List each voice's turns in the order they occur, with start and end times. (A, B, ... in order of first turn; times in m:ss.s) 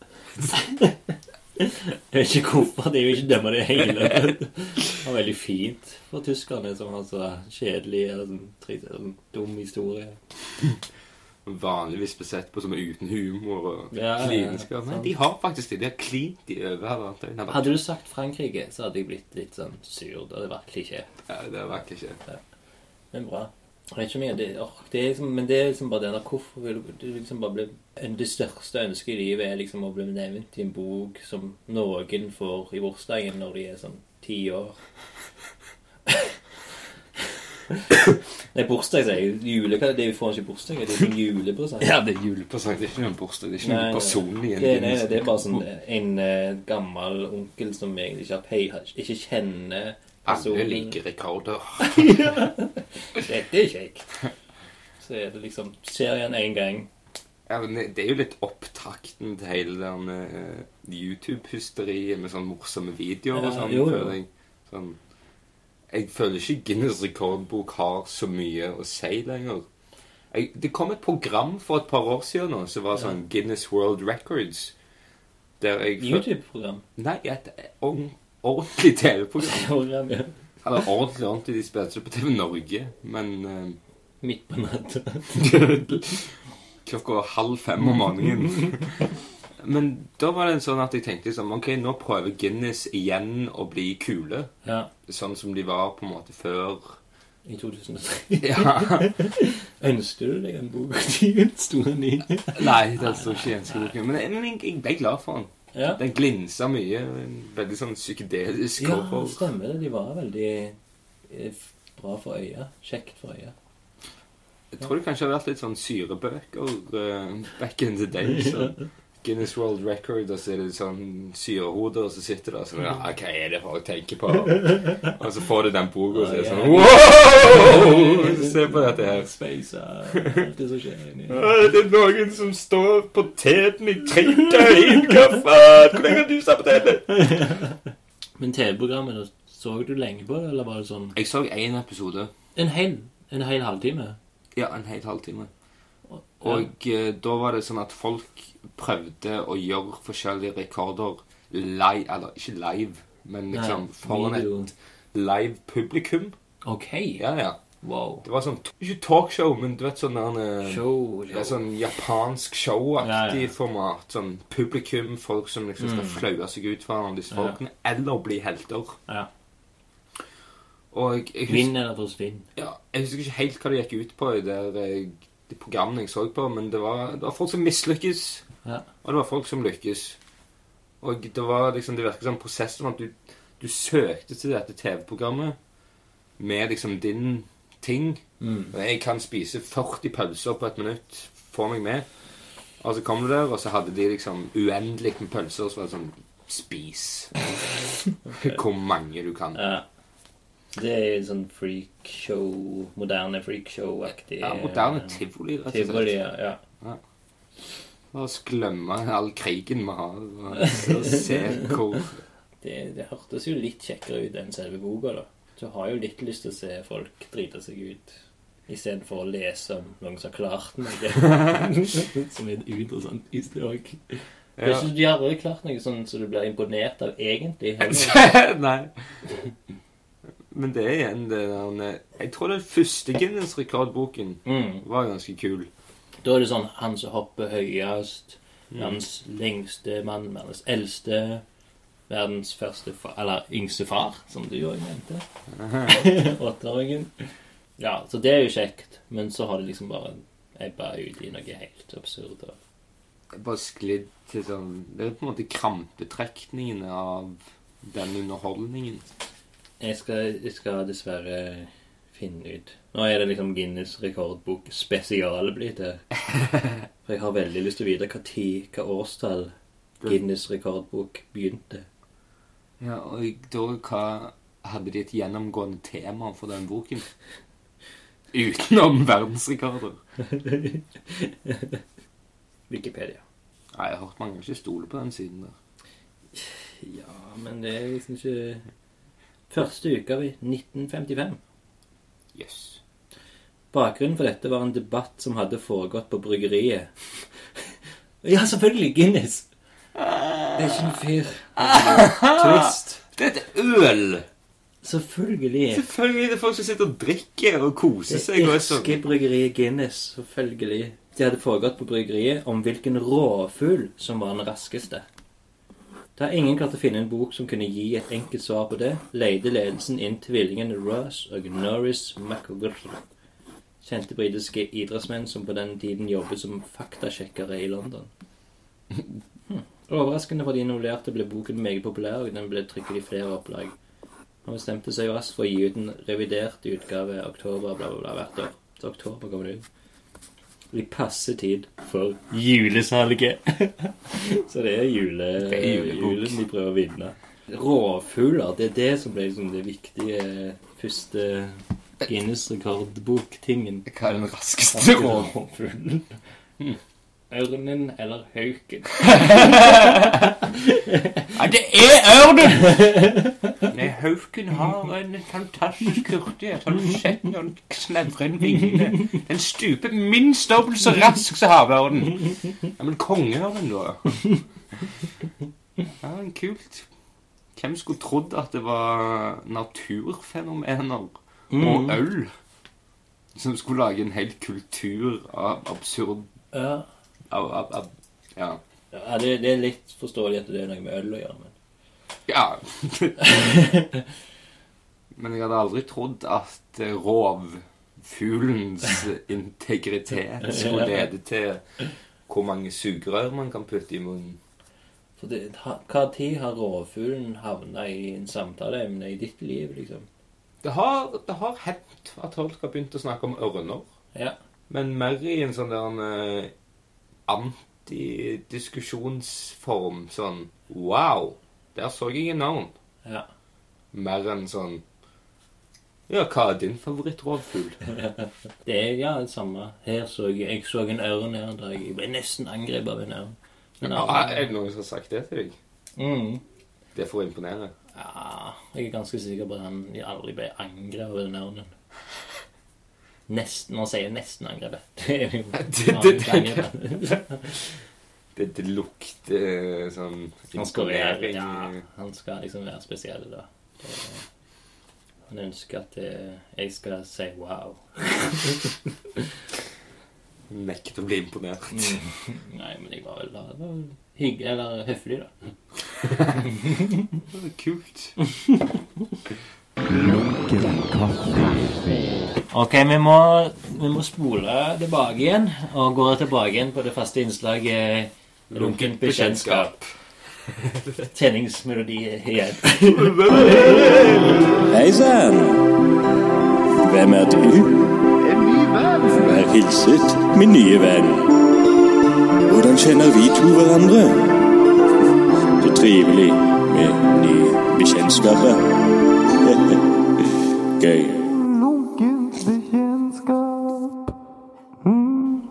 0:00.4-0:10.2 A
0:03.8-0:04.4 B
0:11.4-0:17.7 B
0:13.9-0:15.1 A
0:17.5-0:21.1 A
0:21.3-0:22.2 B
0:23.1-0:34.8 A
0:36.1-0:36.4 A
0:37.7-0:38.0 A
0:38.5-0:41.9 A
0:41.8-0:45.6 B
0:43.6-0:51.0 A
0:50.2-0:52.4 B
0:51.8-0:54.3 A
0:55.0-0:56.9 A
0:57.5-1:05.0 B
1:03.3-1:04.2 A
1:05.9-1:09.7 B
1:10.3-1:14.7 B
1:15.6-1:16.2 B
1:16.0-1:16.8 A
1:17.0-1:19.7 B
1:19.4-1:20.4 A
1:20.6-1:23.8 B
1:24.2-1:25.6 A
1:25.3-1:34.5 B
1:34.6-1:34.9 A
1:35.1-1:37.0 B
1:37.5-1:43.9 A
1:38.4-1:39.2 B
1:42.5-1:49.4 B
1:45.7-1:46.0 A
1:48.8-1:50.8 A
1:51.3-1:53.5 A
1:54.7-2:09.3 B
2:06.1-2:11.4 A
2:10.1-2:10.4 B
2:11.3-2:17.2 B
2:17.1-2:17.8 A
2:18.4-2:21.2 A
2:21.2-2:22.3 B
2:22.6-2:24.2 A
2:24.6-2:25.5 B
2:26.1-2:26.7 A
2:26.4-2:36.4 B
2:33.5-2:34.7 A
2:36.6-2:37.2 A
2:37.2-2:37.6 B
2:37.8-2:38.2 A
2:38.2-2:49.0 B
2:40.6-2:41.6 A
2:43.0-2:43.5 A
2:45.8-2:46.2 A
2:47.3-2:47.6 A
2:50.9-2:51.7 B
2:51.5-2:52.5 A
2:52.6-2:58.5 B
2:59.0-3:00.2 B
3:01.0-3:05.6 B
3:06.4-3:12.1 B
3:08.4-3:08.7 A
3:12.8-3:19.6 B
3:18.3-3:18.6 A
3:19.6-3:19.8 A
3:20.7-3:26.6 A
3:24.4-3:26.2 B
3:28.1-3:32.2 B
3:30.6-3:32.0 A
3:32.6-3:48.3 A
3:41.2-3:41.7 B
3:44.6-3:44.9 B
3:47.8-3:48.9 B
3:50.5-3:55.7 B
3:54.4-3:54.8 A
3:56.2-4:01.4 A
3:58.7-3:59.0 B
4:02.1-4:05.3 A
4:05.5-4:06.0 B
4:05.8-4:12.6 A
4:13.3-4:19.0 B
4:19.8-4:26.0 A
4:26.3-4:26.9 B
4:27.0-4:29.5 A
4:30.1-4:31.9 A
4:32.8-4:37.1 B
4:38.3-4:40.0 B
4:40.2-4:41.8 A
4:42.7-4:43.2 A
4:43.7-4:45.6 B
4:46.4-4:48.6 A
4:49.5-4:51.4 A
4:52.3-4:52.8 B
4:53.7-4:57.7 A
4:58.2-4:59.5 A
5:00.0-5:01.0 B
5:00.6-5:03.0 A
5:01.6-5:04.3 B
5:04.8-5:05.9 A
5:05.7-5:09.0 B
5:08.1-5:15.0 A
5:16.2-5:23.0 A
5:23.8-5:28.1 A
5:29.5-5:33.8 A
5:34.4-5:39.7 A
5:40.7-5:53.9 A
5:45.4-5:46.4 B
5:53.9-5:55.3 B
5:54.7-5:56.2 A
5:57.3-6:01.3 A
5:59.0-6:00.3 B
6:01.3-6:02.9 B
6:02.6-6:03.7 A
6:03.7-6:14.2 B
6:16.0-6:16.9 B
6:17.6-6:22.3 B
6:21.5-6:22.0 A
6:23.4-6:26.3 B
6:26.5-6:26.9 A
6:27.3-6:28.6 B
6:28.9-6:31.6 A
6:32.3-6:33.5 B
6:33.2-6:34.1 A
6:35.2-6:41.6 B
6:40.4-6:40.9 A
6:42.3-6:44.4 B
6:45.2-6:50.1 A
6:50.6-6:53.9 B
6:54.7-6:56.5 B
6:57.3-7:02.7 B
7:03.9-7:04.8 B
7:06.1-7:07.8 B
7:07.9-7:14.5 A
7:13.8-7:15.6 B
7:16.0-7:16.4 A
7:17.0-7:17.7 B
7:17.9-7:21.7 A
7:23.3-7:27.6 A
7:25.5-7:26.7 B
7:28.4-7:31.8 B
7:30.6-7:34.3 A
7:35.3-7:38.8 A
7:40.5-7:42.0 B
7:41.7-7:45.5 A
7:46.0-7:46.5 B
7:47.3-7:48.2 B
7:49.8-7:51.9 C
7:52.5-7:59.7 A
7:58.5-7:59.9 B
8:00.4-8:01.1 B
8:01.1-8:03.9 A
8:02.9-8:04.7 B
8:04.7-8:05.7 C
8:06.8-8:11.3 C
8:12.5-8:14.5 C
8:15.6-8:18.8 C
8:19.4-8:19.8 C
8:20.8-8:24.0 C
8:24.9-8:25.3 C